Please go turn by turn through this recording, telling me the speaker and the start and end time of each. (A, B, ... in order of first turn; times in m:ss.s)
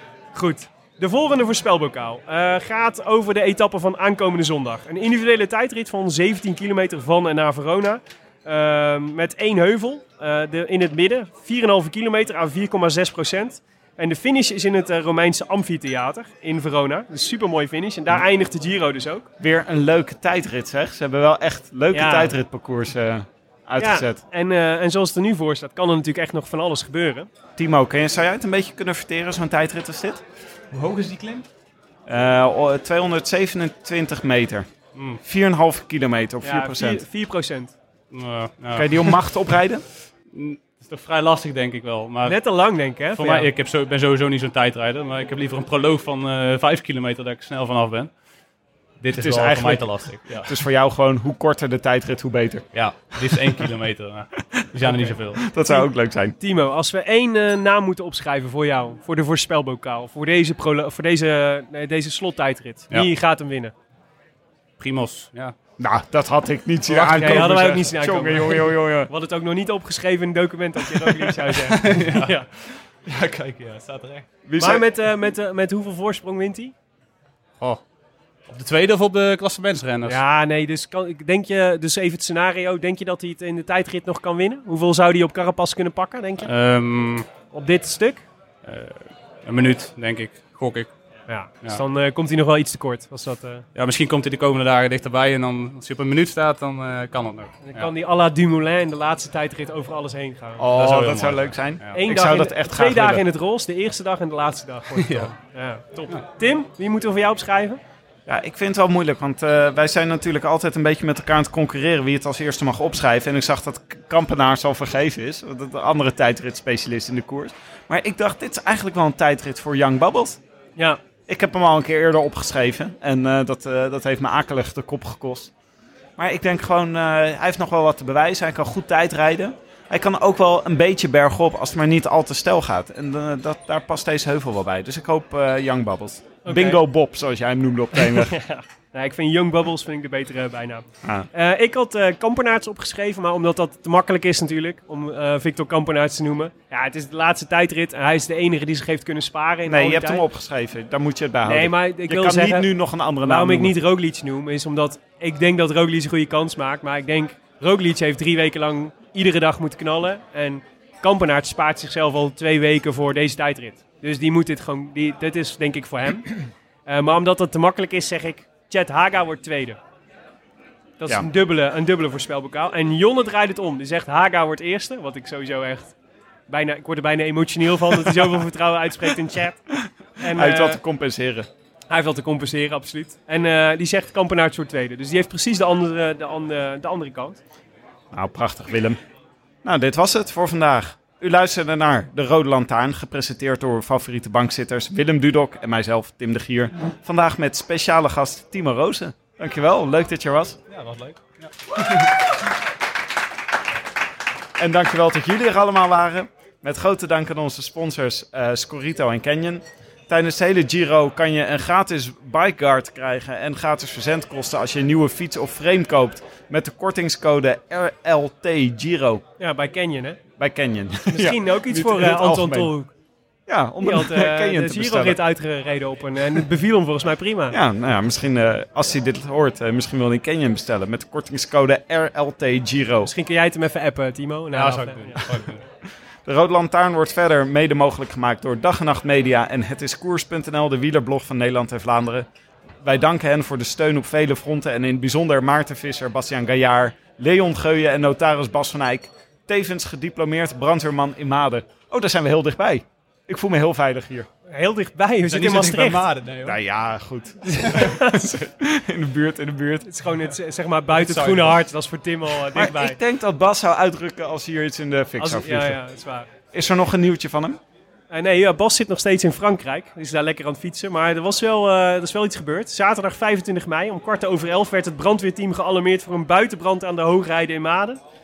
0:00.3-0:19.3 A
0:19.4-0:24.2 B
0:21.9-0:22.3 A
0:23.8-0:27.3 A
0:27.6-0:30.2 B
0:30.7-0:31.4 C
0:32.1-0:34.7 B
0:34.9-0:35.2 C
0:35.2-0:37.0 B
0:36.4-0:37.7 A
0:38.1-0:39.2 C
0:38.7-0:39.9 B
0:40.3-0:42.4 C
0:42.2-0:43.5 A
0:43.1-0:48.1 C
0:49.0-0:50.5 C
0:49.1-0:52.7 B
0:52.7-0:55.4 C
0:54.9-0:55.9 A
0:55.4-0:56.3 B
0:56.4-1:03.7 A
1:04.8-1:05.5 C
1:05.8-1:09.1 B
1:06.9-1:07.9 C
1:07.2-1:12.4 A
1:11.7-1:14.3 C
1:14.4-1:14.8 B
1:14.6-1:16.7 A
1:18.5-1:20.2 C
1:20.0-1:26.5 A
1:26.4-1:27.3 C
1:27.5-1:28.2 A
1:28.6-1:30.9 C
1:31.3-1:33.6 A
1:33.7-1:37.9 C
1:37.6-1:40.6 A
1:40.6-1:43.2 B
1:40.7-1:42.0 C
1:41.9-1:47.8 A
1:44.9-1:45.3 C
1:48.3-2:00.4 B
2:01.3-2:05.5 B
2:06.2-2:18.4 B
2:16.4-2:16.8 A
2:18.1-2:30.2 A
2:29.6-2:33.7 B
2:31.4-2:32.7 A
2:33.2-2:49.8 A
2:51.0-2:55.9 A
2:56.5-2:59.6 A
2:59.9-3:01.5 B
3:00.2-3:00.8 A
3:01.9-3:07.4 A
3:08.1-3:09.0 B
3:09.6-3:20.6 B
3:20.7-3:22.1 C
3:24.6-3:39.2 B
3:39.4-3:40.2 A
3:40.4-3:42.7 B
3:41.1-3:42.9 A
3:43.5-3:45.2 B
3:43.8-3:47.6 A
3:47.5-3:53.1 B
3:53.0-3:55.2 A
3:54.5-3:55.6 C
3:56.2-4:02.3 B
4:02.8-4:14.3 B
4:14.5-4:16.0 A
4:15.3-4:16.6 C
4:16.4-4:19.9 B
4:17.5-4:18.2 A
4:19.8-4:23.0 A
4:20.9-4:21.6 C
4:22.5-4:25.8 B
4:25.2-4:26.3 A
4:26.5-4:27.6 B
4:28.1-4:38.0 A